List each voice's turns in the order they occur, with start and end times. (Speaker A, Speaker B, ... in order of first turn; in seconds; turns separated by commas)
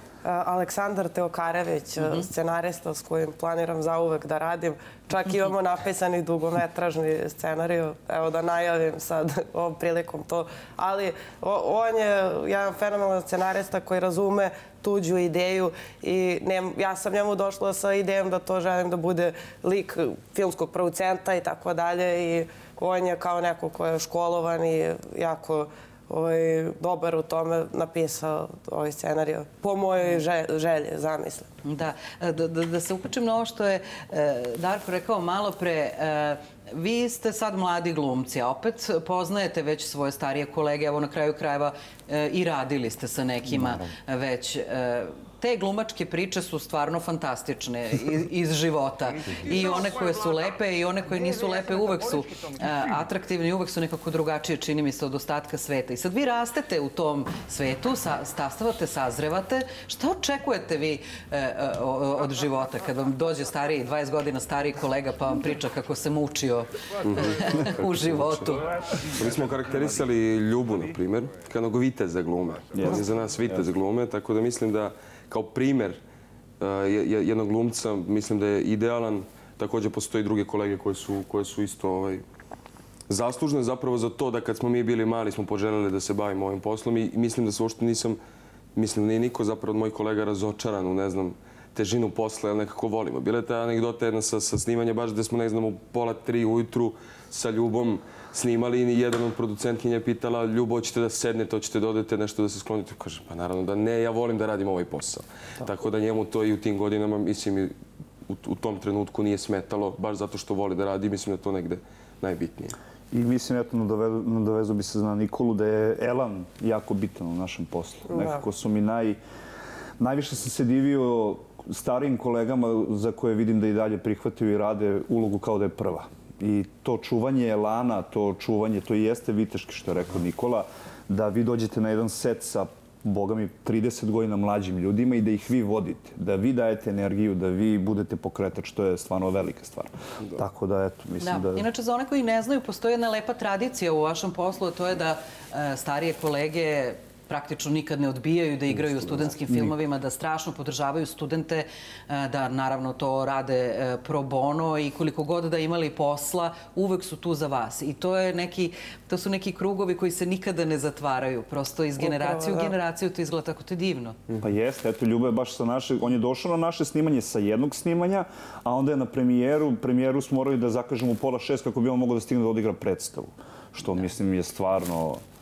Speaker A: 0.2-31.5, Speaker B: 31.6-68.7, Speaker C: 43.5-43.9, Speaker D: 67.0-68.4, Speaker D: 69.1-76.0, Speaker C: 72.7-73.6, Speaker D: 76.6-82.2, Speaker D: 83.1-88.2, Speaker D: 88.8-107.7, Speaker D: 108.3-112.8, Speaker C: 113.1-119.2, Speaker A: 118.1-118.4, Speaker C: 120.0-141.7, Speaker B: 141.2-164.2, Speaker A: 162.0-162.7, Speaker C: 164.4-175.2